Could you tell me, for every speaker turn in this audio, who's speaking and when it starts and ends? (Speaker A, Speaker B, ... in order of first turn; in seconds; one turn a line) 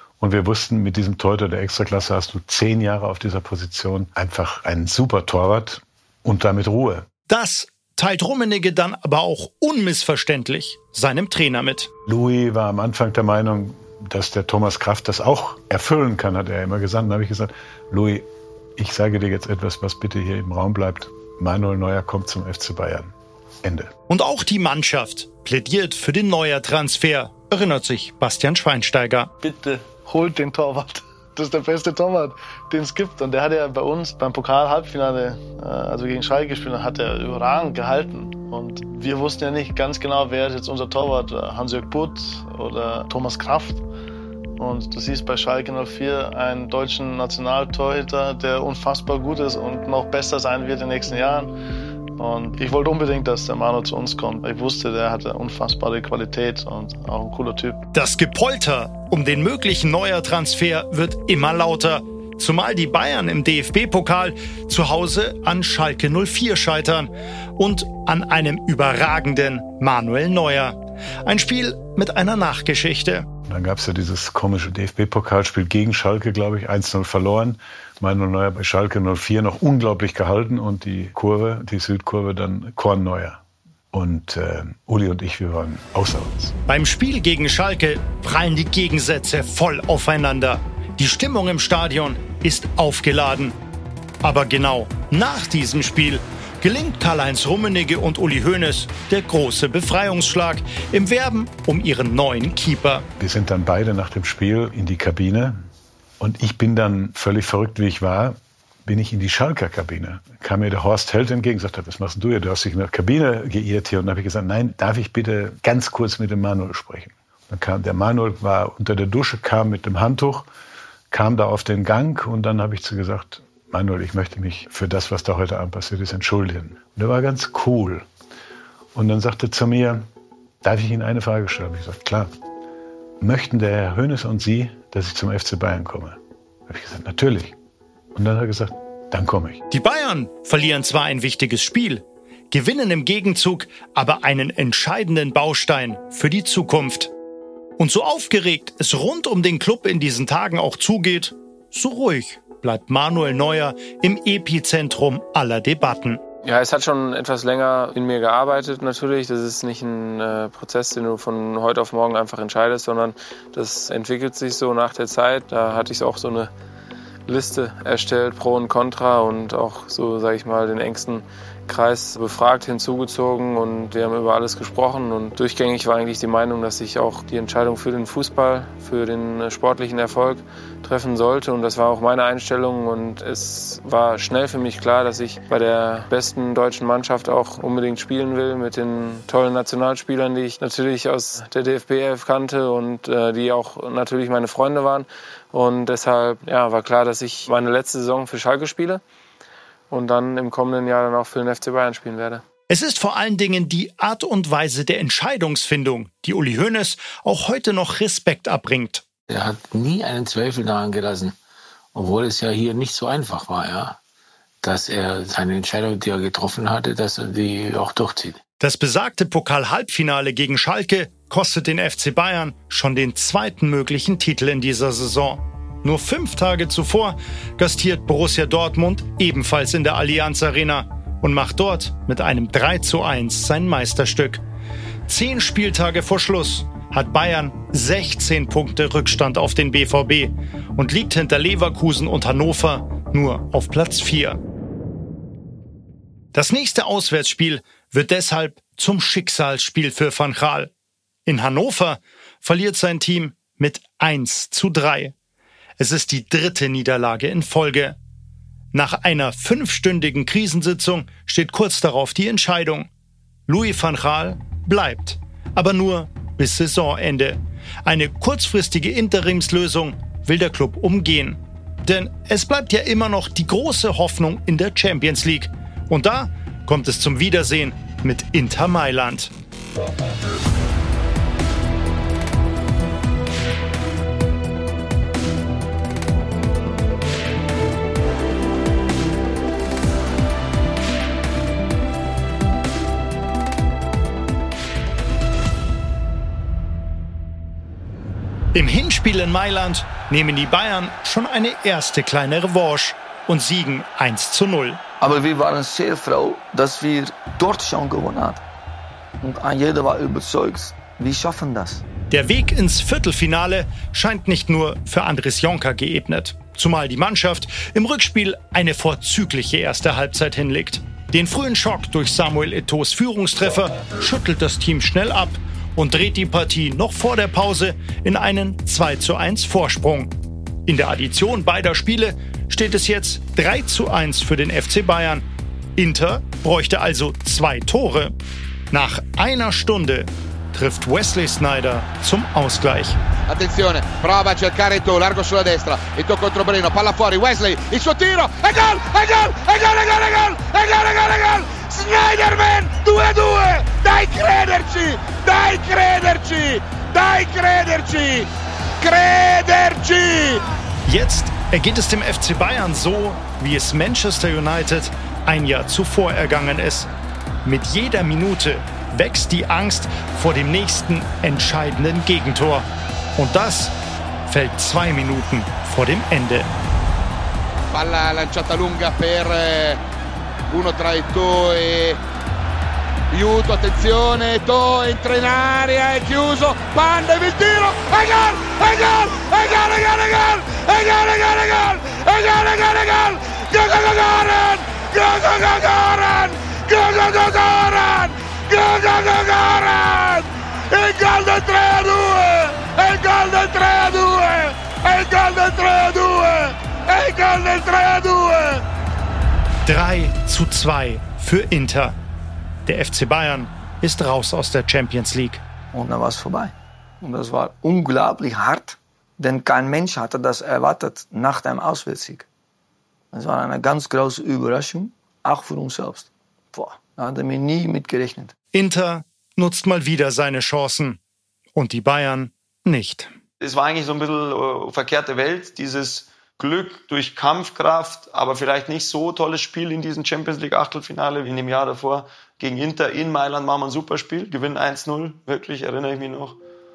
Speaker A: 0.2-7.1
Speaker B: 7.3-11.9
Speaker A: 12.1-18.3
Speaker A: 18.8-23.1
Speaker A: 23.6-23.9
Speaker B: 24.1-29.3
Speaker C: 29.4-43.8
Speaker C: 44.6-51.5
Speaker C: 52.2-57.8
Speaker B: 57.9-73.3
Speaker A: 73.5-83.4
Speaker A: 83.9-86.6
Speaker B: 86.7-93.6
Speaker B: 94.2-103.1
Speaker A: 103.2-105.6
Speaker A: 106.2-120.5
Speaker A: 121.1-128.1
Speaker A: 128.9-130.1
Speaker A: 130.6-132.3
Speaker A: 133.2-137.6
Speaker A: 138.1-139.6
Speaker B: 139.7-147.1
Speaker B: 147.8-156.2
Speaker D: 156.4-166.5
Speaker D: 167.3-199.0
Speaker D: 199.9-202.4
Speaker B: 202.7-209.0
Speaker E: 209.3-211.3
Speaker E: 211.9-214.0
Speaker E: 214.6-218.4
Speaker B: 218.6-234.4
Speaker B: 235.1-244.4
Speaker B: 246.3-250.7
Speaker B: 251.3-255.1
Speaker B: 255.8-258.0
Speaker B: 258.7-262.9
Speaker B: 263.5-279.3
Speaker B: 298.5-304.8
Speaker F: 305.0-308.4
Speaker F: 309.2-311.8
Speaker B: 312.1-330.1
Speaker B: 330.7-335.2
Speaker B: 335.8-338.1
Speaker B: 338.7-343.0
Speaker G: 343.3-358.3
Speaker G: 358.8-360.4
Speaker B: 360.9-366.9
Speaker B: 367.4-372.7
Speaker B: 373.2-373.8
Speaker B: 374.3-376.5
Speaker G: 377.7-379.8
Speaker G: 380.5-382.0
Speaker G: 383.1-408.6
Speaker B: 409.7-411.9
Speaker B: 412.7-415.4
Speaker F: 415.7-422.3
Speaker F: 423.1-428.3
Speaker B: 428.5-431.0
Speaker B: 431.6-433.1
Speaker H: 433.4-446.4